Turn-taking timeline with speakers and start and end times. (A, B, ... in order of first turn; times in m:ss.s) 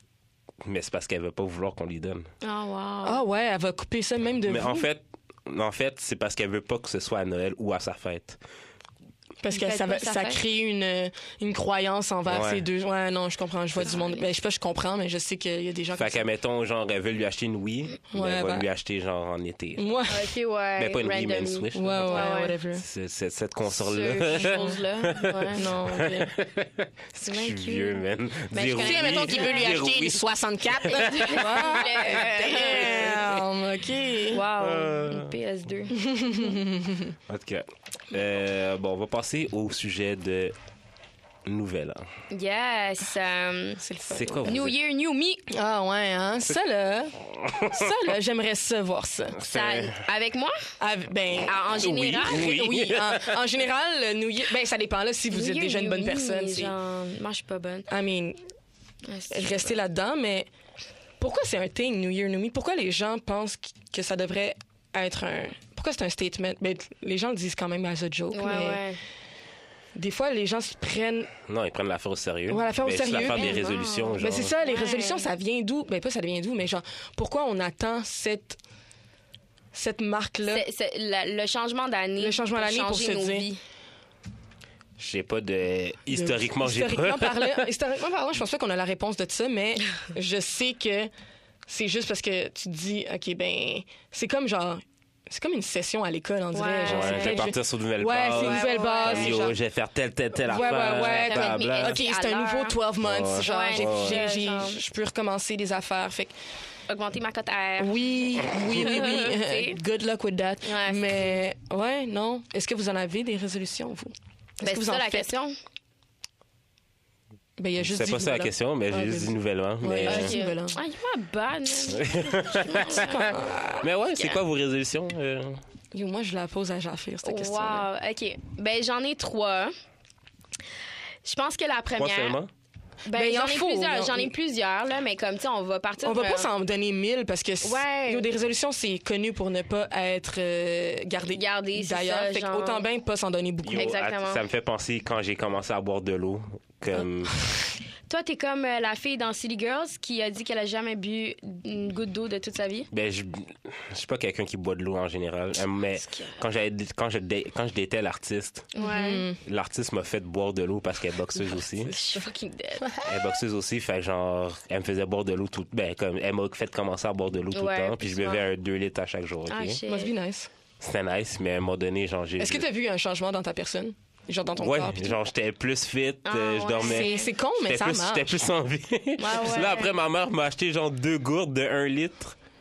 0:00.6-0:02.3 A
0:02.4-0:03.2 B
0:03.0-0:04.9 C
0:04.5-0:08.4 A
0:09.4-0:16.2 C
0:09.5-0:10.4 B
0:12.3-0:12.6 A
0:13.8-0:14.3 B
0:16.0-0:20.0 A
0:18.1-0:18.7 C
0:19.8-0:20.3 C
0:20.1-0:22.6 B
0:20.8-0:33.3 A
0:21.7-0:22.8 C
0:23.7-0:25.8 B
0:25.5-0:26.3 C
0:27.2-0:29.8 B
0:28.8-0:34.4 C
0:30.9-0:33.4 B
0:34.3-0:36.5 B
0:34.6-0:35.3 A
0:35.9-0:37.2 C
0:37.3-0:40.6 A
0:41.5-0:42.1 A
0:42.3-0:43.8 B
0:43.8-0:44.5 C
0:44.1-0:44.8 A
0:44.4-0:45.5 B
0:45.5-0:49.4 C
0:47.5-0:47.9 A
0:49.4-0:50.1 A
0:49.5-0:50.7 B
0:50.8-0:56.7 C
0:51.4-0:52.6 B
0:51.9-0:53.4 A
0:55.3-0:57.9 B
0:57.9-0:58.4 C
0:59.0-0:59.8 B
0:59.3-1:00.5 C
1:01.2-1:08.8 C
1:08.3-1:09.0 B
1:10.0-1:11.3 C
1:11.5-1:14.5 A
1:12.5-1:13.7 C
1:13.1-1:15.3 B
1:14.2-1:18.6 C
1:19.7-1:20.6 C
1:20.5-1:23.6 B
1:22.2-1:23.5 C
1:25.0-1:27.6 A
1:26.1-1:31.1 C
1:31.7-1:39.6 C
1:36.5-1:37.5 B
1:36.9-1:42.0 A
1:38.3-1:39.5 B
1:40.4-1:46.3 C
1:40.5-1:42.8 B
1:43.0-1:44.2 A
1:43.4-1:44.8 B
1:46.9-1:49.8 B
1:47.8-1:55.3 C
1:50.6-1:51.4 B
1:54.6-1:55.6 B
1:57.6-2:00.8 C
1:57.8-2:00.4 A
2:00.1-2:04.4 B
2:01.9-2:05.6 A
2:02.9-2:03.9 C
2:05.9-2:07.9 C
2:07.2-2:09.7 B
2:11.2-2:12.4 B
2:12.0-2:12.5 A
2:13.1-2:16.5 B
2:13.1-2:14.3 C
2:16.0-2:23.9 C
2:17.6-2:18.3 B
2:21.3-2:22.8 B
2:23.6-2:27.4 A
2:23.7-2:24.4 B
2:28.1-2:32.9 B
2:32.9-2:38.7 A
2:36.0-2:36.4 B
2:38.8-2:39.3 B
2:38.8-2:39.4 C
2:39.4-2:41.9 A
2:41.8-2:42.2 C
2:41.9-2:42.9 B
2:43.0-2:49.8 A
2:47.5-2:48.4 B
2:49.5-2:50.1 B
2:49.9-2:50.5 C
2:50.8-2:52.6 A
2:52.4-2:55.2 C
2:54.6-3:02.4 A
2:56.2-2:57.3 B
2:56.8-2:58.3 C
2:59.2-2:59.9 B